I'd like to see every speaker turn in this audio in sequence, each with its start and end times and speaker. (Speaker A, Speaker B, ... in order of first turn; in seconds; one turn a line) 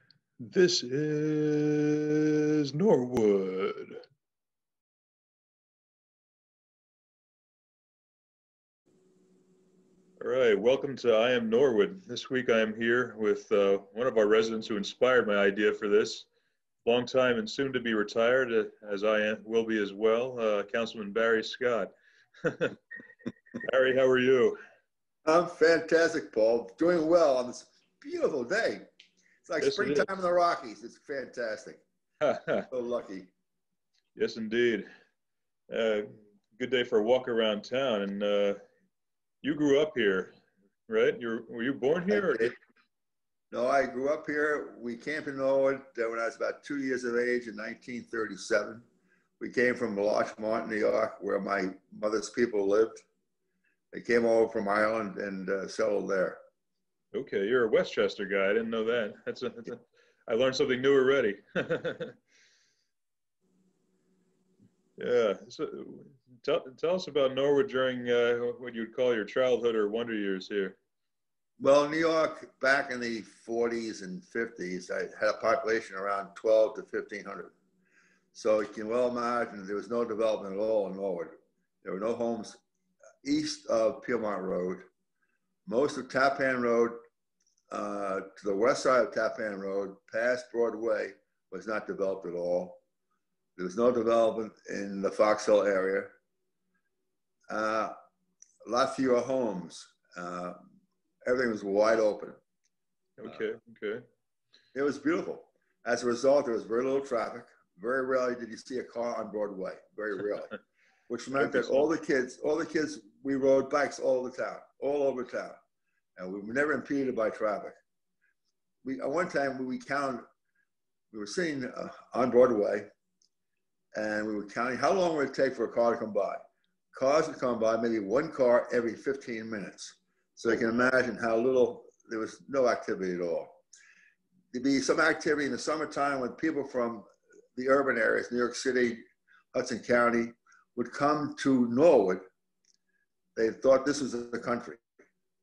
Speaker A: 0.4-4.0
Speaker A: 10.2-16.3
Speaker A: 16.8-21.9
Speaker A: 22.4-22.8
Speaker A: 23.6-24.6
Speaker B: 25.2-28.9
Speaker B: 29.4-31.8
Speaker A: 29.6-30.1
Speaker A: 32.2-32.7
Speaker B: 32.7-33.3
Speaker A: 34.1-34.9
Speaker A: 35.7-38.6
Speaker A: 39.4-40.3
Speaker A: 40.9-42.5
Speaker B: 42.1-42.5
Speaker B: 43.5-48.8
Speaker B: 49.4-53.0
Speaker B: 53.9-56.4
Speaker A: 57.1-62.2
Speaker A: 65.0-70.8
Speaker B: 71.6-77.5
Speaker B: 78.3-82.6
Speaker B: 83.2-84.9
Speaker B: 85.7-87.0
Speaker B: 87.7-92.8
Speaker B: 93.6-96.1
Speaker B: 97.5-97.9
Speaker B: 98.7-100.6
Speaker B: 101.2-102.4
Speaker A: 103.2-104.0
Speaker B: 104.7-110.5
Speaker B: 111.1-115.6
Speaker A: 111.3-111.9
Speaker B: 116.2-117.8
Speaker B: 118.8-120.2
Speaker B: 121.1-122.9
Speaker B: 123.9-126.4
Speaker B: 126.9-133.6
Speaker B: 134.5-137.0
Speaker B: 137.6-142.2
Speaker B: 143.3-144.8